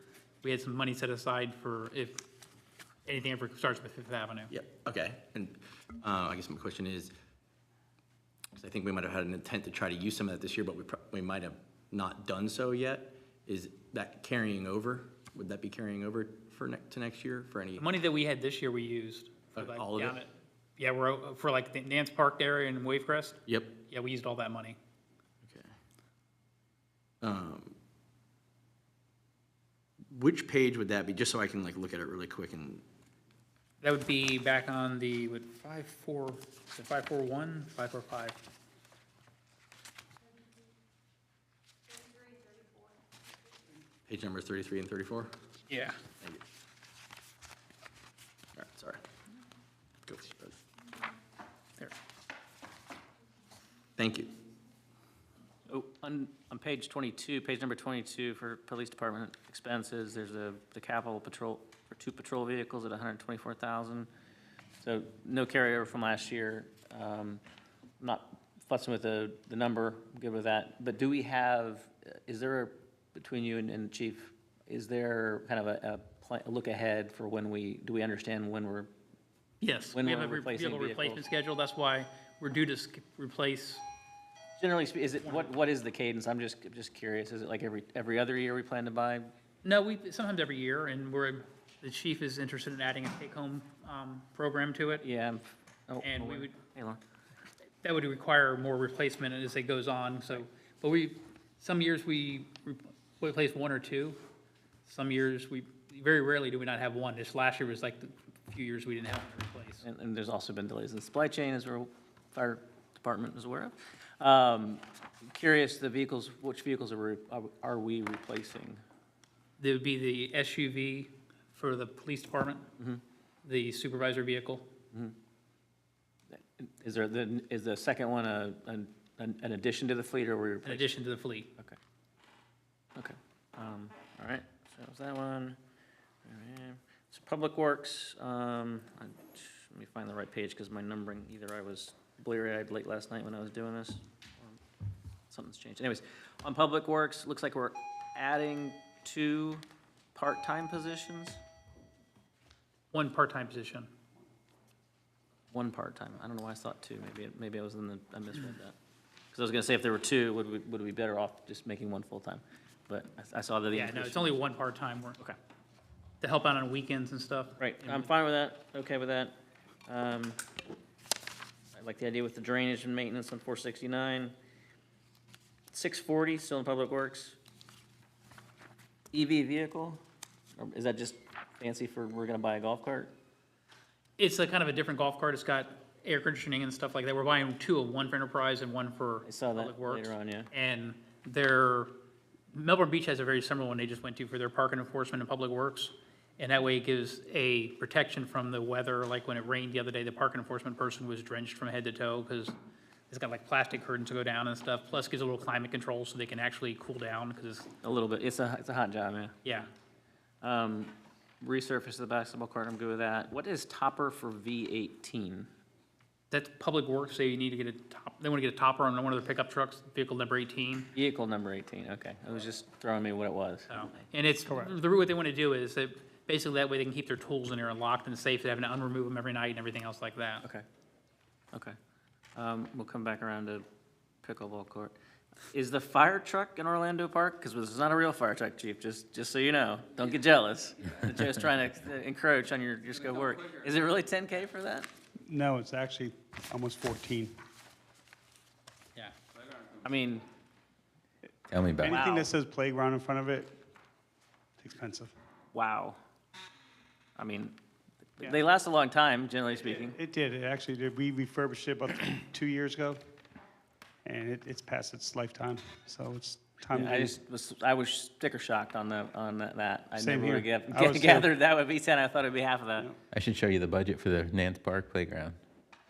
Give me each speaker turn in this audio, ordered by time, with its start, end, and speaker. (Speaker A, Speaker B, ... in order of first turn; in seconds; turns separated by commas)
Speaker A: 0.4-2.3, Speaker A: 3.1-4.5, Speaker B: 4.5-7.1, Speaker B: 8.6-17.9, Speaker A: 17.8-24.8, Speaker B: 19.6-20.2, Speaker B: 25.4-25.7, Speaker B: 27.2-27.8, Speaker B: 30.1-32.8, Speaker A: 33.8-38.4, Speaker B: 44.1-45.3, Speaker A: 45.7-46.0, Speaker B: 48.6-49.0, Speaker B: 50.1-50.5, Speaker B: 54.0-54.4, Speaker C: 55.7-64.1, Speaker C: 64.8-67.4, Speaker C: 68.0-78.9, Speaker A: 79.6-83.8, Speaker C: 79.9-81.2, Speaker C: 84.6-89.3, Speaker A: 89.6-95.1, Speaker C: 95.0-97.0, Speaker A: 96.0-96.6, Speaker A: 97.8-104.2, Speaker A: 104.9-109.8, Speaker C: 109.8-118.8, Speaker A: 119.6-122.7, Speaker A: 123.4-124.7, Speaker C: 126.3-130.9, Speaker A: 130.7-131.5, Speaker C: 133.0-135.6, Speaker C: 136.2-144.6, Speaker C: 145.3-151.4, Speaker A: 152.9-153.9, Speaker C: 155.5-158.8, Speaker C: 159.3-164.4, Speaker A: 163.7-165.2, Speaker A: 166.2-168.1, Speaker C: 167.6-169.4, Speaker C: 169.9-170.4, Speaker C: 171.8-174.3, Speaker C: 175.7-177.4, Speaker C: 179.1-180.0, Speaker C: 180.6-183.1, Speaker A: 184.2-191.9, Speaker C: 189.2-190.5, Speaker A: 192.5-202.6, Speaker A: 203.1-207.7, Speaker C: 207.8-209.4, Speaker C: 210.4-215.5, Speaker A: 216.3-220.9, Speaker C: 220.9-223.7, Speaker A: 223.7-230.4, Speaker C: 232.4-233.7, Speaker C: 234.2-234.9, Speaker C: 235.5-244.9, Speaker D: 245.3-247.3, Speaker C: 249.8-250.2, Speaker E: 251.5-251.9, Speaker D: 251.8-253.5, Speaker C: 251.9-252.3, Speaker D: 254.6-255.1, Speaker C: 255.5-256.0, Speaker C: 257.2-257.5, Speaker C: 258.2-260.0, Speaker D: 259.7-263.0, Speaker D: 264.1-267.2, Speaker C: 266.8-272.9, Speaker D: 270.0-271.3, Speaker E: 273.1-275.4